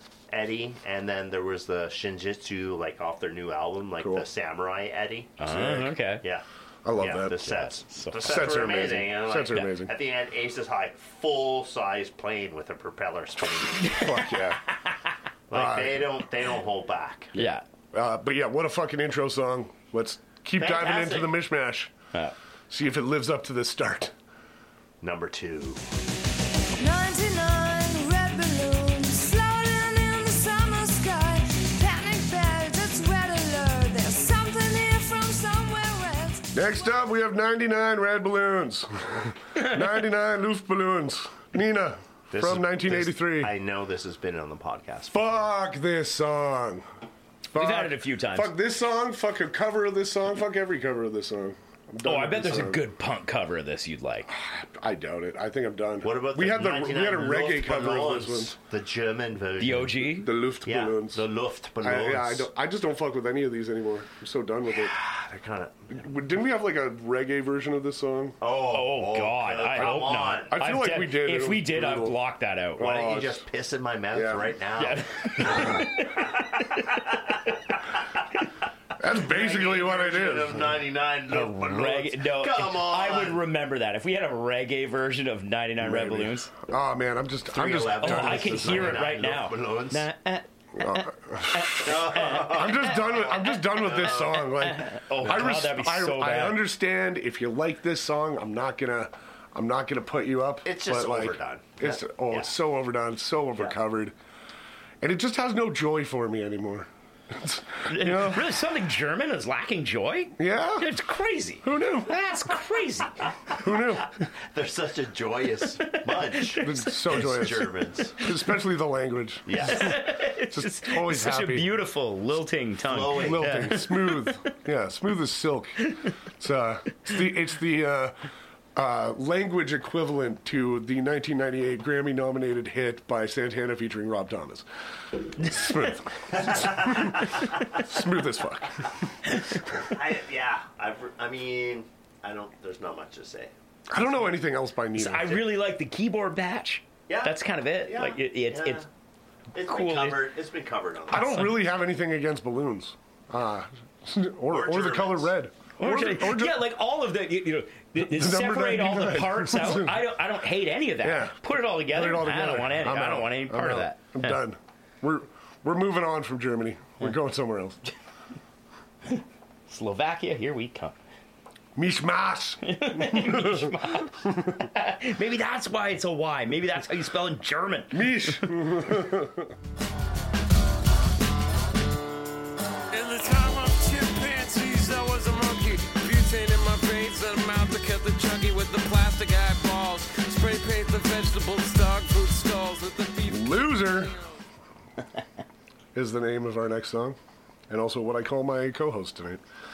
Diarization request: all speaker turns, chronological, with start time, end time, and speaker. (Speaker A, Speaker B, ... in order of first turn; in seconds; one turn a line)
Speaker A: 0.3-5.5
Speaker B: 5.4-6.2
Speaker C: 5.5-5.9
Speaker A: 6.2-14.3
Speaker C: 6.8-7.7
Speaker B: 7.5-8.2
Speaker C: 8.2-9.9
Speaker C: 13.9-14.7
Speaker A: 15.5-17.4
Speaker C: 15.5-16.1
Speaker B: 17.3-17.6
Speaker C: 17.9-21.9
Speaker A: 20.6-21.3
Speaker C: 22.7-24.1
Speaker A: 25.0-25.8
Speaker D: 26.8-27.2
Speaker E: 26.9-31.2
Speaker D: 30.3-30.8
Speaker E: 31.8-36.3
Speaker D: 31.9-33.8
Speaker C: 36.5-43.5
Speaker A: 42.3-45.2
Speaker C: 45.1-46.9
Speaker C: 47.5-52.8
Speaker B: 47.5-48.5
Speaker B: 52.0-54.3
Speaker C: 54.3-58.5
Speaker A: 56.0-60.0
Speaker B: 59.6-60.3
Speaker C: 60.0-61.2
Speaker A: 60.6-62.5
Speaker C: 61.8-65.0
Speaker A: 64.8-66.0
Speaker C: 65.9-68.4
Speaker A: 68.4-70.5
Speaker B: 68.6-72.9
Speaker C: 69.8-72.2
Speaker C: 72.8-73.4
Speaker A: 72.8-76.2
Speaker C: 74.1-74.5
Speaker B: 74.8-77.0
Speaker C: 79.0-80.8
Speaker A: 79.2-83.4
Speaker B: 81.3-86.5
Speaker C: 85.8-89.0
Speaker A: 87.5-90.1
Speaker B: 88.0-93.0
Speaker C: 90.8-104.1
Speaker A: 91.7-94.5
Speaker B: 94.4-96.6
Speaker A: 100.6-102.5
Speaker C: 105.0-108.5
Speaker B: 107.8-113.3
Speaker C: 110.4-110.9
Speaker C: 111.6-112.2
Speaker C: 113.6-114.1
Speaker A: 114.2-118.2
Speaker B: 115.9-116.8
Speaker C: 116.6-121.7
Speaker A: 119.5-120.0
Speaker B: 119.6-124.5
Speaker A: 122.9-123.7
Speaker C: 123.1-128.2
Speaker B: 125.8-126.1
Speaker C: 128.8-134.7
Speaker C: 135.2-138.9
Speaker A: 136.3-137.8
Speaker A: 139.8-143.5
Speaker C: 143.9-145.4
Speaker B: 144.9-148.8
Speaker A: 147.1-148.8
Speaker A: 149.5-151.4
Speaker B: 149.6-150.2
Speaker C: 151.1-156.6
Speaker B: 151.2-151.5
Speaker A: 154.5-155.3
Speaker B: 155.8-164.4
Speaker C: 158.0-160.0
Speaker C: 161.0-167.8
Speaker B: 169.1-170.9
Speaker C: 171.8-174.6
Speaker B: 172.7-178.5
Speaker C: 177.9-179.5
Speaker D: 182.9-193.9
Speaker C: 193.2-194.2
Speaker C: 195.9-197.2
Speaker C: 197.7-199.4